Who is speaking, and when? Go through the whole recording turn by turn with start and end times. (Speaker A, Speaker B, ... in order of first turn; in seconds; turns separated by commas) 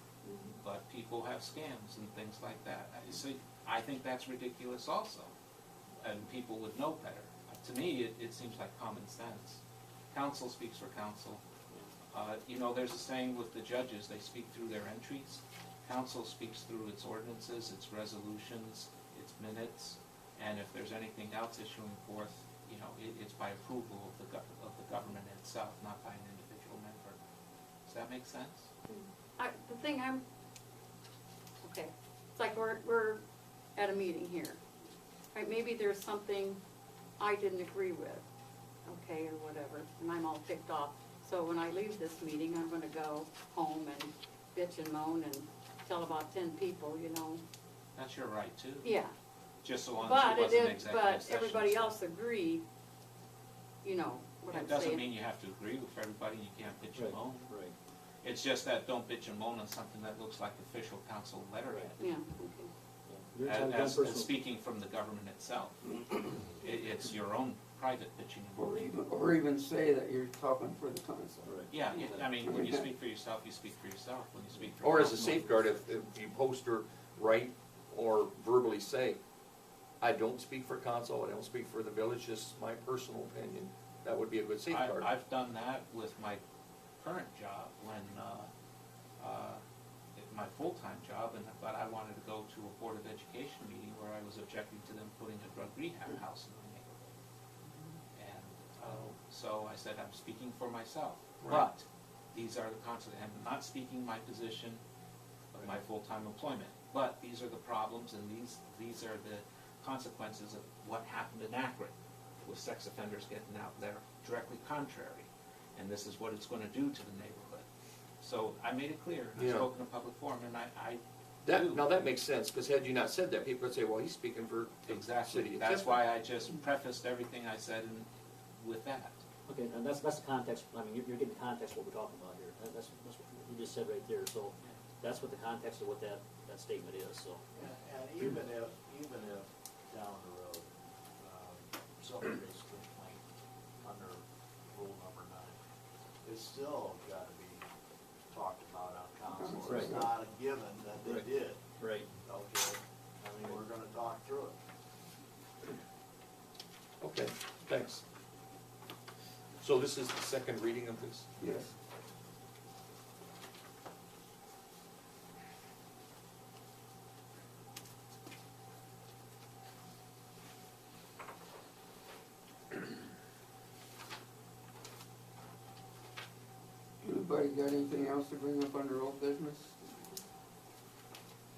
Speaker A: 0.3-0.5, Speaker B: 0.6-5.3, Speaker B: 6.0-9.6, Speaker B: 10.1-11.4, Speaker B: 12.1-27.2, Speaker B: 27.9-28.7, Speaker A: 28.9-30.2, Speaker A: 31.6-33.2, Speaker A: 33.8-34.6, Speaker A: 35.3-36.6, Speaker A: 37.2-38.3, Speaker A: 38.9-47.4, Speaker B: 48.0-49.0, Speaker A: 48.8-49.1, Speaker B: 49.6-52.0, Speaker A: 50.0-52.6, Speaker A: 53.8-55.1, Speaker B: 54.5-57.6, Speaker C: 57.0-57.8, Speaker B: 58.2-62.2, Speaker A: 62.0-62.7, Speaker C: 63.1-64.3, Speaker B: 63.4-69.0, Speaker D: 68.5-71.7, Speaker B: 71.7-75.6, Speaker D: 72.4-72.8, Speaker E: 74.8-79.2, Speaker E: 80.0-85.1, Speaker B: 84.7-86.4, Speaker B: 87.0-88.5, Speaker B: 89.2-89.6, Speaker B: 90.2-97.1, Speaker B: 98.1-104.8, Speaker C: 105.5-105.8, Speaker B: 105.6-117.7, Speaker B: 118.2-121.8, Speaker E: 119.4-119.7, Speaker E: 121.4-126.1, Speaker B: 124.9-129.2, Speaker C: 129.5-137.4, Speaker F: 137.6-143.2, Speaker F: 143.8-145.6, Speaker F: 146.2-147.6, Speaker F: 148.3-151.6, Speaker D: 149.3-150.1, Speaker C: 149.7-150.1, Speaker C: 151.0-151.3, Speaker C: 151.8-152.1, Speaker F: 152.2-154.6, Speaker E: 157.0-158.0, Speaker E: 159.6-161.3, Speaker D: 161.4-161.7, Speaker D: 177.0-180.2